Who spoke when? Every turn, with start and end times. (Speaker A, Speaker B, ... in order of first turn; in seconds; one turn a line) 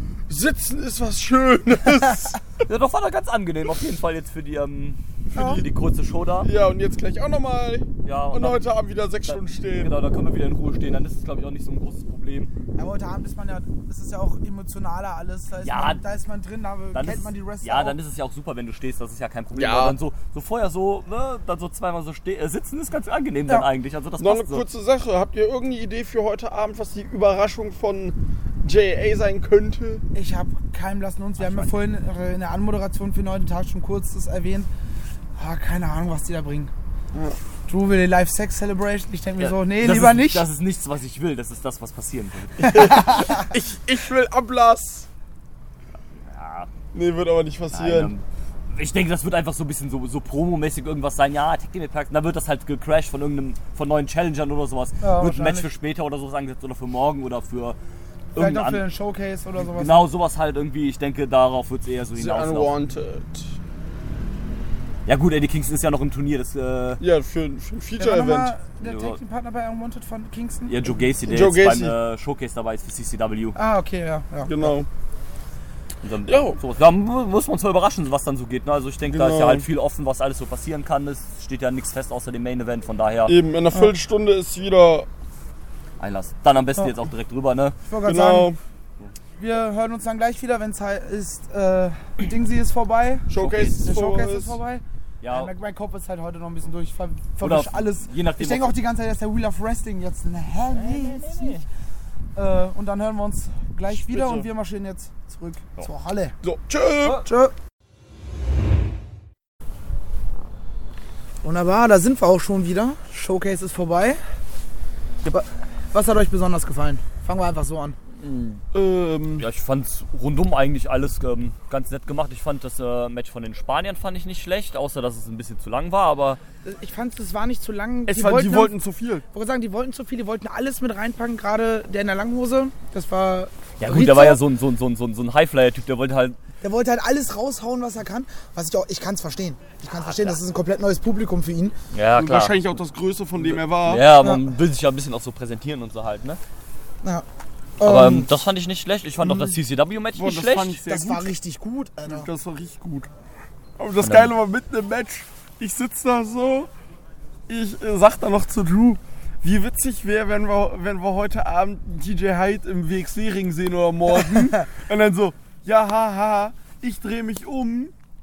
Speaker A: 0.3-2.4
Speaker B: 2.6-6.5
Speaker A: 5.3-5.6
Speaker C: 5.3-5.6
Speaker A: 6.4-10.0
Speaker B: 8.0-8.6
Speaker B: 9.2-12.5
Speaker C: 12.8-18.0
Speaker B: 15.6-16.0
Speaker B: 16.9-24.6
Speaker A: 19.5-20.0
Speaker A: 24.2-30.0
Speaker C: 30.1-34.7
Speaker B: 31.4-31.7
Speaker C: 35.4-36.7
Speaker C: 37.7-40.5
Speaker B: 39.4-42.8
Speaker C: 42.6-43.3
Speaker A: 42.6-45.1
Speaker B: 46.2-46.7
Speaker A: 46.9-48.1
Speaker B: 47.7-57.8
Speaker C: 55.0-55.7
Speaker B: 58.3-58.8
Speaker C: 58.4-60.0
Speaker B: 59.6-62.8
Speaker A: 62.1-63.5
Speaker B: 65.0-67.0
Speaker A: 67.0-68.5
Speaker C: 68.0-70.9
Speaker B: 68.8-69.2
Speaker B: 70.7-73.6
Speaker A: 71.2-72.0
Speaker C: 73.5-74.8
Speaker A: 74.5-74.9
Speaker B: 76.0-83.3
Speaker A: 76.2-76.6
Speaker A: 79.0-79.7
Speaker A: 83.2-85.1
Speaker B: 86.0-87.8
Speaker C: 87.9-88.5
Speaker A: 88.0-88.6
Speaker C: 89.4-101.7
Speaker A: 93.3-94.6
Speaker B: 93.4-93.8
Speaker B: 95.2-95.5
Speaker B: 97.4-98.7
Speaker B: 100.7-101.7
Speaker C: 102.3-106.3
Speaker A: 103.9-104.5
Speaker A: 106.4-107.2
Speaker C: 107.2-107.5
Speaker C: 111.4-114.2
Speaker C: 115.2-118.0
Speaker B: 118.2-118.6
Speaker A: 118.7-119.5
Speaker B: 119.4-126.4
Speaker C: 126.6-128.7
Speaker A: 128.1-129.2
Speaker C: 129.3-134.4
Speaker B: 133.8-136.4
Speaker C: 136.6-141.7
Speaker B: 140.0-140.4
Speaker B: 141.9-142.5
Speaker A: 142.2-144.1
Speaker B: 143.4-146.4
Speaker C: 144.1-144.4
Speaker C: 147.8-148.3
Speaker B: 147.8-150.8
Speaker C: 149.2-149.6
Speaker A: 150.1-151.3
Speaker C: 150.8-152.3
Speaker A: 152.1-153.1
Speaker A: 153.8-156.7
Speaker B: 154.0-154.3
Speaker A: 157.5-167.9